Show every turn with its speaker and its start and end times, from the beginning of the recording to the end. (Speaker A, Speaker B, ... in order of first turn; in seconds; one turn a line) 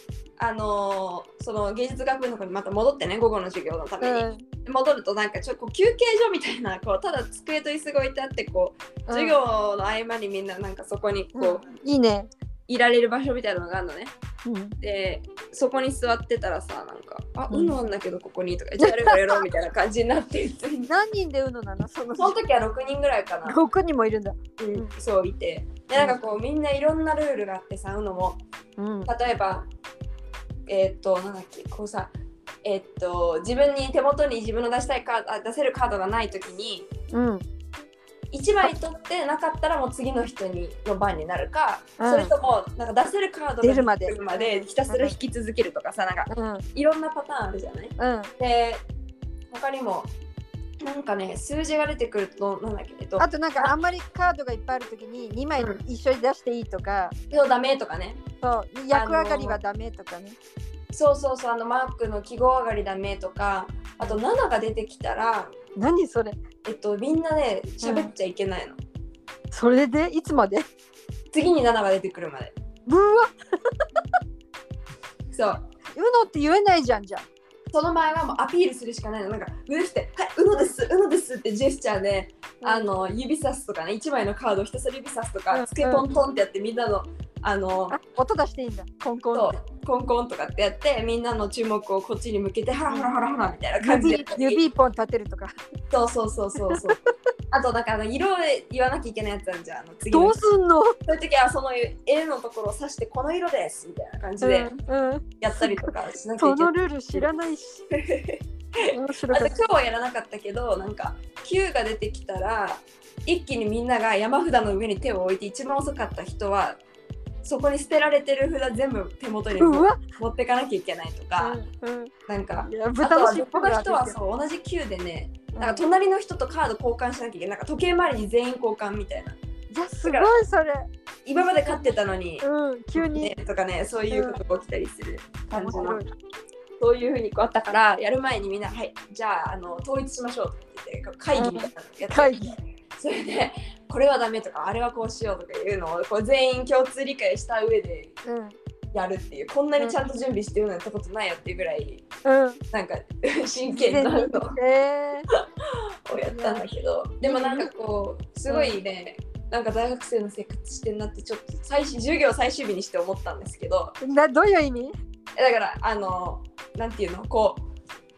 Speaker A: 0.4-11.7
Speaker B: 4.0-4.5
Speaker B: 9.1-9.4
Speaker B: 11.3-12.3
Speaker A: 12.7-14.1
Speaker B: 14.4-14.8
Speaker A: 14.8-20.9
Speaker B: 17.5-17.8
Speaker B: 18.8-19.4
Speaker B: 20.9-22.4
Speaker A: 22.2-23.6
Speaker B: 23.4-24.9
Speaker A: 24.6-28.4
Speaker B: 28.8-29.1
Speaker A: 29.1-29.7
Speaker A: 30.7-32.1
Speaker A: 32.6-36.9
Speaker B: 37.1-37.4
Speaker A: 38.3-48.8
Speaker B: 42.0-42.3
Speaker B: 43.6-45.1
Speaker B: 46.3-46.6
Speaker B: 48.0-48.3
Speaker A: 49.5-50.1
Speaker A: 50.8-53.7
Speaker B: 53.2-57.1
Speaker A: 57.3-58.2
Speaker B: 58.4-60.4
Speaker A: 58.9-59.6
Speaker A: 60.9-65.5
Speaker B: 65.8-66.4
Speaker A: 66.7-68.8
Speaker B: 67.8-68.1
Speaker B: 69.5-70.7
Speaker A: 71.3-72.5
Speaker B: 72.9-73.3
Speaker A: 75.3-75.6
Speaker B: 76.0-77.3
Speaker A: 77.7-88.0
Speaker B: 82.6-82.9
Speaker B: 85.5-86.1
Speaker B: 87.9-89.6
Speaker A: 89.3-94.6
Speaker B: 93.8-95.5
Speaker A: 95.9-97.0
Speaker B: 96.6-97.0
Speaker A: 97.5-100.4
Speaker B: 100.1-101.0
Speaker A: 101.1-104.7
Speaker B: 104.4-107.9
Speaker A: 105.4-107.3
Speaker A: 107.9-116.8
Speaker B: 108.8-109.6
Speaker A: 117.4-121.6
Speaker B: 119.6-120.0
Speaker B: 121.4-122.1
Speaker A: 122.3-129.4
Speaker B: 122.6-124.2
Speaker B: 125.5-125.8
Speaker B: 129.7-130.9
Speaker A: 130.1-130.4
Speaker A: 131.3-132.4
Speaker B: 132.4-133.3
Speaker A: 133.0-136.0
Speaker B: 134.1-134.4
Speaker B: 135.5-136.1
Speaker A: 136.8-148.2
Speaker B: 141.3-142.6
Speaker B: 148.2-148.6
Speaker A: 148.9-152.1
Speaker B: 152.2-152.6
Speaker A: 152.7-154.6
Speaker B: 153.7-155.3
Speaker A: 155.3-164.0
Speaker B: 156.3-156.6
Speaker B: 157.2-157.7
Speaker B: 158.5-158.8
Speaker B: 164.0-164.9
Speaker A: 165.4-167.6